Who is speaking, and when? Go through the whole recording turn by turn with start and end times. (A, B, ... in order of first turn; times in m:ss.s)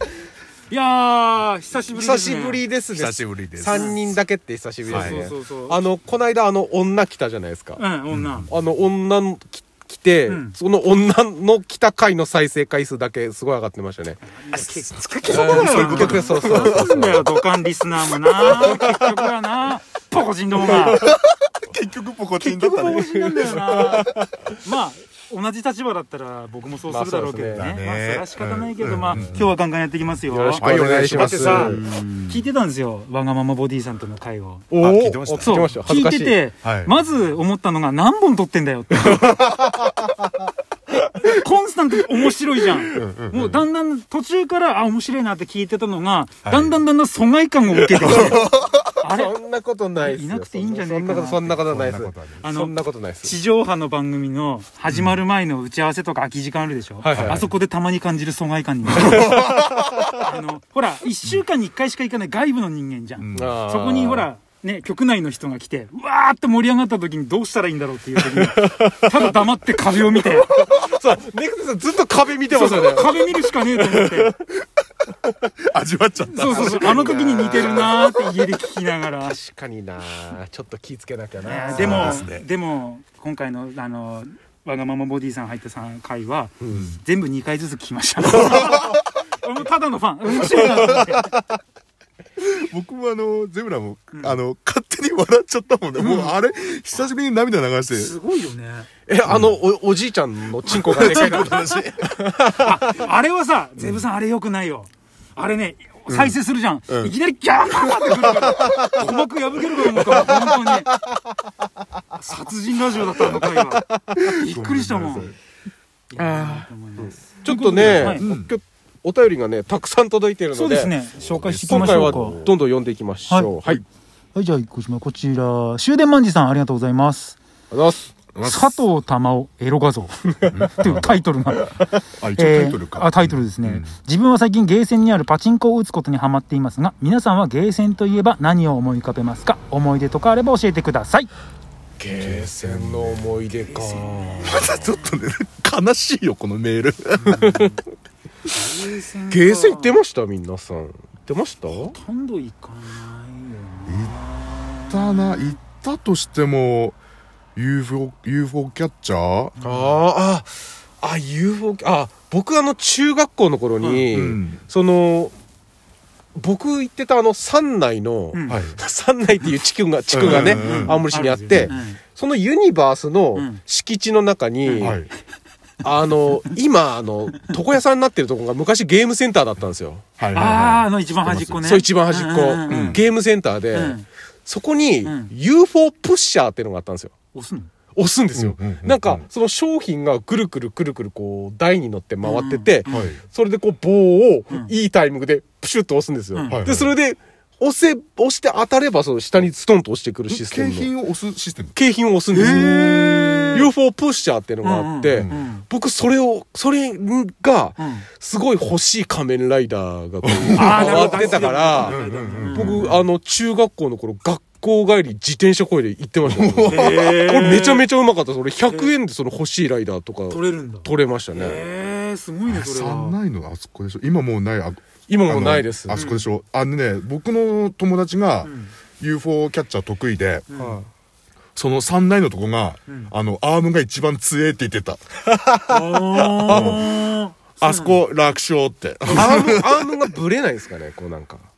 0:00.7-0:02.6 A
0:01.9-0:07.8 B
0:02.9-0:04.0 C
0:03.7-0:04.0 A
0:04.9-0:05.2 C
0:04.9-0:06.0 A
0:07.8-0:08.5 A
0:08.1-0:08.5 C
0:08.5-0:14.7 B
0:10.3-0:10.6 A
0:14.2-0:21.1 A
0:15.2-0:16.9 C
0:15.2-0:17.3 B
0:18.5-0:19.2 B
0:18.6-0:19.0 C
0:20.6-0:23.1 C
0:22.4-0:24.3 B
0:22.7-0:34.6 A
0:26.9-0:27.7 B
0:27.5-0:29.5 C
0:30.3-0:31.8 B
0:30.6-0:32.4 C
0:34.7-0:36.4 B
0:34.8-0:35.8 C
0:35.5-0:39.4 A
0:36.6-0:36.9 C
0:39.0-0:39.7 C
0:41.2-0:48.4 A
0:42.9-0:43.6 C
0:46.4-0:46.8 C
0:47.9-0:48.8 C
0:48.0-0:48.4 B
0:49.0-0:49.4 A
0:49.0-0:53.4 B
0:49.9-0:51.7 A
0:51.6-0:52.4 C
0:52.4-0:59.5 A
0:54.9-0:55.2 C
0:57.0-0:57.5 B
0:57.1-0:57.4 C
0:59.0-0:59.9 C
1:00.0-1:10.6 A
1:03.2-1:03.6 C
1:03.3-1:04.3 B
1:08.3-1:09.4 B
1:09.9-1:13.1 B
1:12.5-1:14.3 A
1:13.7-1:14.7 C
1:15.6-1:18.1 C
1:16.3-1:19.4 A
1:16.4-1:18.0 B
1:19.2-1:22.2 B
1:21.4-1:31.3 A
1:21.7-1:22.4 C
1:26.6-1:26.9 B
1:26.7-1:27.0 C
1:28.4-1:29.0 C
1:30.4-1:31.1 C
1:32.4-1:38.1 C
1:34.1-1:34.4 A
1:36.0-1:36.3 A
1:37.9-1:38.9 A
1:39.1-1:43.0 B
1:39.2-1:39.6 C
1:40.7-1:42.0 C
1:41.0-1:41.5 A
1:42.5-1:50.9 A
1:46.1-1:46.4 C
1:46.9-1:47.1 C
1:47.8-1:48.9 C
1:49.9-1:50.3 C
1:52.1-1:55.3 A
1:54.2-1:55.4 C
1:56.1-1:58.2 A
1:56.2-2:01.0 B
1:57.8-1:58.5 C
2:00.5-2:02.4 A
2:01.2-2:02.5 C
2:01.7-2:03.8 B
2:03.3-2:03.8 A
2:04.3-2:07.4 A
2:07.7-2:08.8 B
2:08.4-2:21.3 A
2:10.5-2:11.2 C
2:12.2-2:13.9 C
2:22.0-2:24.6 B
2:22.1-2:23.4 C
2:23.6-2:25.0 A
2:24.4-2:27.5 C
2:27.2-2:27.8 B
2:27.3-2:27.8 A
2:28.5-2:30.0 A
2:29.3-2:32.0 B
2:31.7-2:35.6 A
2:33.9-2:34.2 C
2:34.9-2:37.0 C
2:37.6-2:39.5 C
2:39.6-2:39.9 A
2:39.6-2:45.3 B
2:44.1-2:44.6 C
2:46.4-2:55.0 B
2:48.3-2:48.7 A
2:48.5-2:48.8 C
2:50.1-2:51.0 C
2:50.2-2:52.0 A
2:53.3-2:53.6 A
2:54.6-2:55.0 A
2:54.8-2:55.1 C
2:55.8-3:00.0 B
3:00.2-3:01.6 C
3:00.3-3:03.0 A
3:01.6-3:07.1 B
3:02.7-3:03.0 C
3:03.7-3:04.0 A
3:05.0-3:05.3 A
3:07.3-3:07.7 A
3:07.9-3:20.9 B
3:08.3-3:09.2 C
3:12.2-3:13.1 A
3:12.9-3:13.2 C
3:16.3-3:16.6 A
3:16.5-3:16.9 C
3:20.3-3:21.8 C
3:21.7-3:41.6 B
3:22.3-3:23.7 A
3:22.4-3:23.6 C
3:24.6-3:25.6 A
3:25.1-3:25.4 C
3:27.8-3:28.1 A
3:30.2-3:32.9 C
3:30.5-3:33.0 A
3:36.2-3:37.2 C
3:36.7-3:37.9 A
3:38.7-3:38.9 A
3:40.3-3:43.2 A
3:42.5-3:50.6 C
3:45.1-3:46.0 B
3:45.9-3:46.2 A
3:48.4-3:48.7 A
3:50.5-3:50.8 A
3:50.6-3:50.8 B
3:51.6-3:55.0 C
3:55.3-3:56.8 B
3:55.7-3:58.0 A
3:56.4-3:56.9 C
3:57.6-4:00.0 C
3:59.1-4:01.4 B